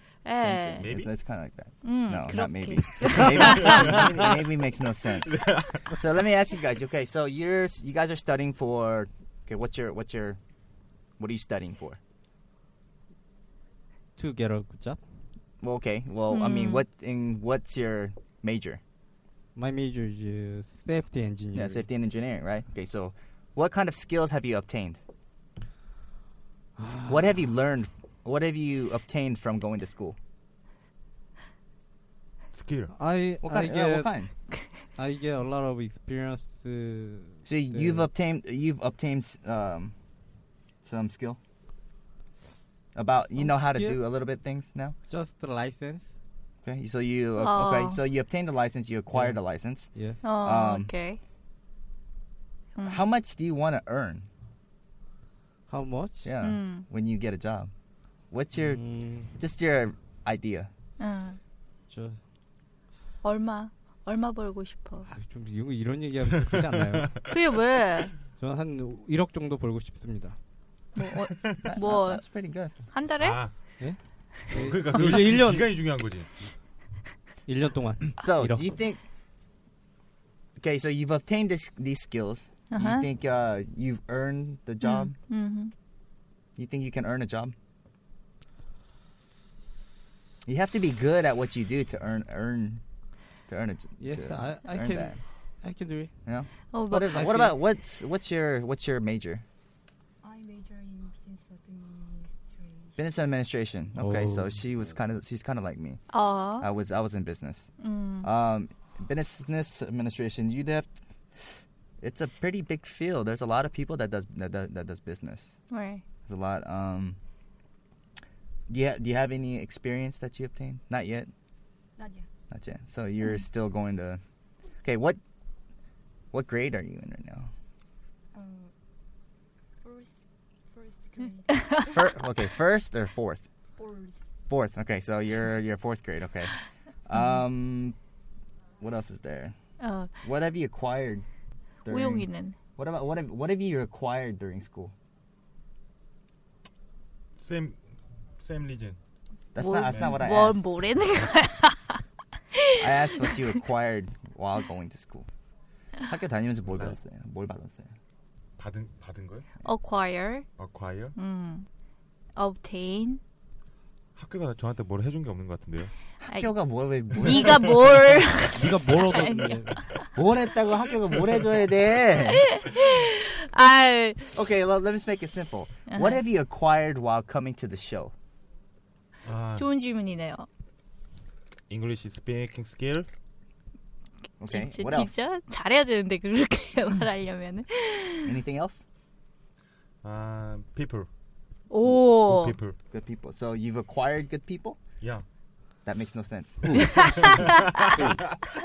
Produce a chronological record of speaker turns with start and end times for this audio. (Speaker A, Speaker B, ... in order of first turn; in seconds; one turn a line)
Speaker A: 0.2-0.9
Speaker B: 0.4-10.4
Speaker C: 0.8-1.1
Speaker A: 1.8-4.0
Speaker C: 5.3-5.8
Speaker B: 11.2-12.0
Speaker D: 14.2-15.0
Speaker B: 15.6-18.8
Speaker A: 16.3-16.8
Speaker D: 19.6-21.8
Speaker B: 21.5-25.0
Speaker D: 26.8-27.2
Speaker B: 27.1-30.2
Speaker C: 32.5-32.9
Speaker D: 32.9-34.1
Speaker B: 33.4-34.3
Speaker D: 35.0-38.1
Speaker B: 37.5-39.9
Speaker B: 40.8-41.4
Speaker B: 43.0-45.0
Speaker D: 43.4-44.0
Speaker D: 45.1-46.1
Speaker B: 46.6-50.9
Speaker A: 47.4-48.0
Speaker D: 49.1-49.4
Speaker D: 50.0-50.2
Speaker A: 50.2-51.2
Speaker B: 52.8-54.3
Speaker D: 55.7-56.4
Speaker B: 56.2-57.7
Speaker A: 56.4-56.9
Speaker B: 58.3-60.7
Speaker D: 58.5-59.3
Speaker A: 61.0-61.4
Speaker D: 61.9-62.2
Speaker A: 63.2-65.1
Speaker D: 65.1-67.2
Speaker C: 66.3-67.3
Speaker A: 67.3-68.1
Speaker D: 68.4-70.4
Speaker A: 71.0-72.2
Speaker B: 71.6-72.8
Speaker A: 72.9-73.4
Speaker C: 73.2-73.5
Speaker D: 74.5-75.9
Speaker C: 74.5-76.3
Speaker D: 77.5-78.8
Speaker B: 78.2-79.0
Speaker B: 80.6-85.2
Speaker A: 82.7-83.1
Speaker A: 84.8-85.7
Speaker B: 86.6-87.5
Speaker B: 90.5-92.8
Speaker B: 93.5-95.2
Speaker D: 94.0-96.1
Speaker B: 96.3-99.4
Speaker A: 96.7-97.3
Speaker D: 97.1-97.5
Speaker E: 100.2-103.0
Speaker B: 103.0-106.0
Speaker D: 104.0-104.6
Speaker A: 106.1-106.7
Speaker B: 106.6-107.7
Speaker A: 107.8-108.3
Speaker B: 108.2-110.9
Speaker B: 112.0-115.6
Speaker A: 115.7-116.0
Speaker B: 116.3-117.2
Speaker B: 118.7-121.3
Speaker E: 122.0-122.3
Speaker B: 122.5-124.2
Speaker B: 124.8-125.2
Speaker B: 126.3-127.5
Speaker E: 128.3-128.7
Speaker E: 129.8-132.1
Speaker B: 131.9-133.5
Speaker E: 133.8-134.2
Speaker B: 134.5-138.0
Speaker B: 138.8-139.6
Speaker A: 139.8-140.1
Speaker B: 140.2-141.3
Speaker B: 141.8-144.9
Speaker A: 141.9-142.6
Speaker C: 147.4-147.8
Speaker C: 148.4-149.0
Speaker B: 149.5-150.6
Speaker A: 149.6-152.0
Speaker C: 149.8-150.3
Speaker A: 152.5-153.6
Speaker B: 152.8-155.3
Speaker B: 156.1-157.9
Speaker C: 158.6-159.5
Speaker A: 159.6-160.5
Speaker C: 160.6-161.2
Speaker A: 161.2-161.7
Speaker A: 162.4-163.2
Speaker C: 164.2-165.9
Speaker B: 166.2-167.9
Speaker A: 166.3-170.1
Speaker D: 168.5-169.9
Speaker B: 170.2-172.5
Speaker A: 172.3-174.3
Speaker B: 174.3-178.1
Speaker A: 175.9-176.2
Speaker C: 179.2-179.7
Speaker A: 179.6-180.5
Speaker C: 181.7-183.1
Speaker B: 184.4-185.2
Speaker A: 184.5-188.3
Speaker B: 188.2-188.8
Speaker C: 190.0-191.1
Speaker A: 191.7-192.6
Speaker C: 191.9-192.8
Speaker B: 192.9-194.8
Speaker B: 195.8-196.8
Speaker A: 196.8-197.8
Speaker C: 196.8-198.1